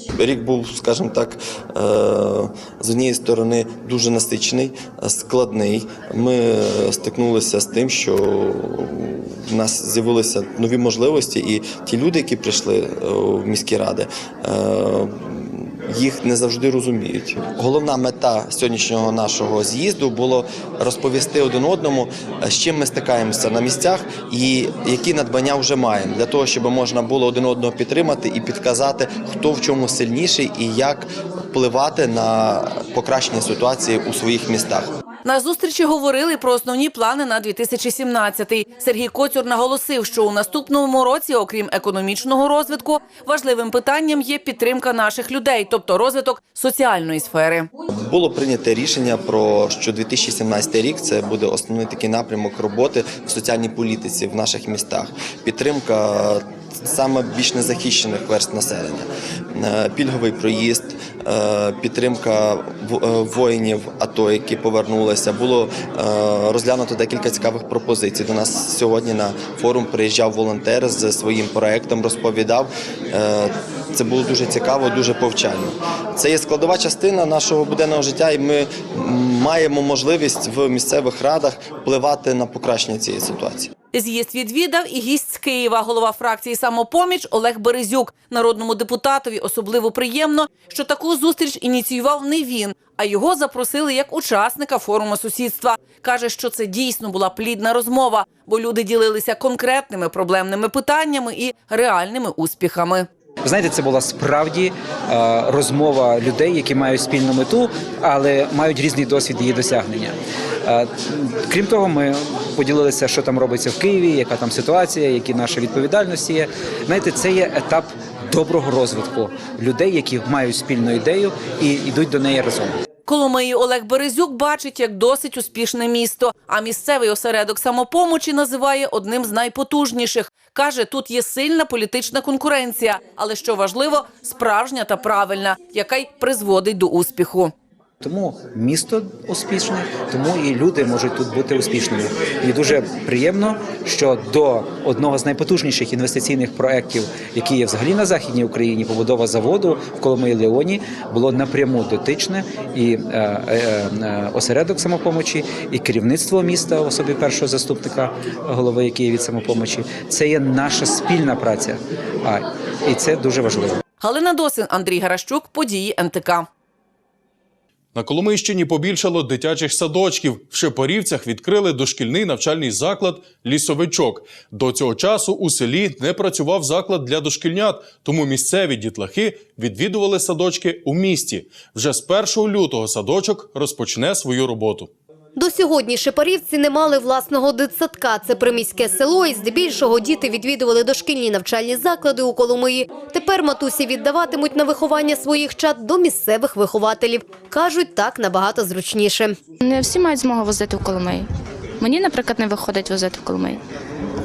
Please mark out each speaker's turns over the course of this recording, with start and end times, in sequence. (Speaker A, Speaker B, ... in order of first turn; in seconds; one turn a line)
Speaker A: 0.1-34.9
Speaker B: 35.2-47.7
Speaker A: 48.0-83.7
Speaker B: 83.9-103.1
Speaker C: 103.4-122.8
Speaker B: 123.1-137.5
Speaker C: 138.0-163.8
Speaker B: 164.0-166.5
Speaker D: 167.9-184.9
Speaker E: 185.3-199.4
Speaker F: 199.6-201.3
Speaker F: 201.8-203.6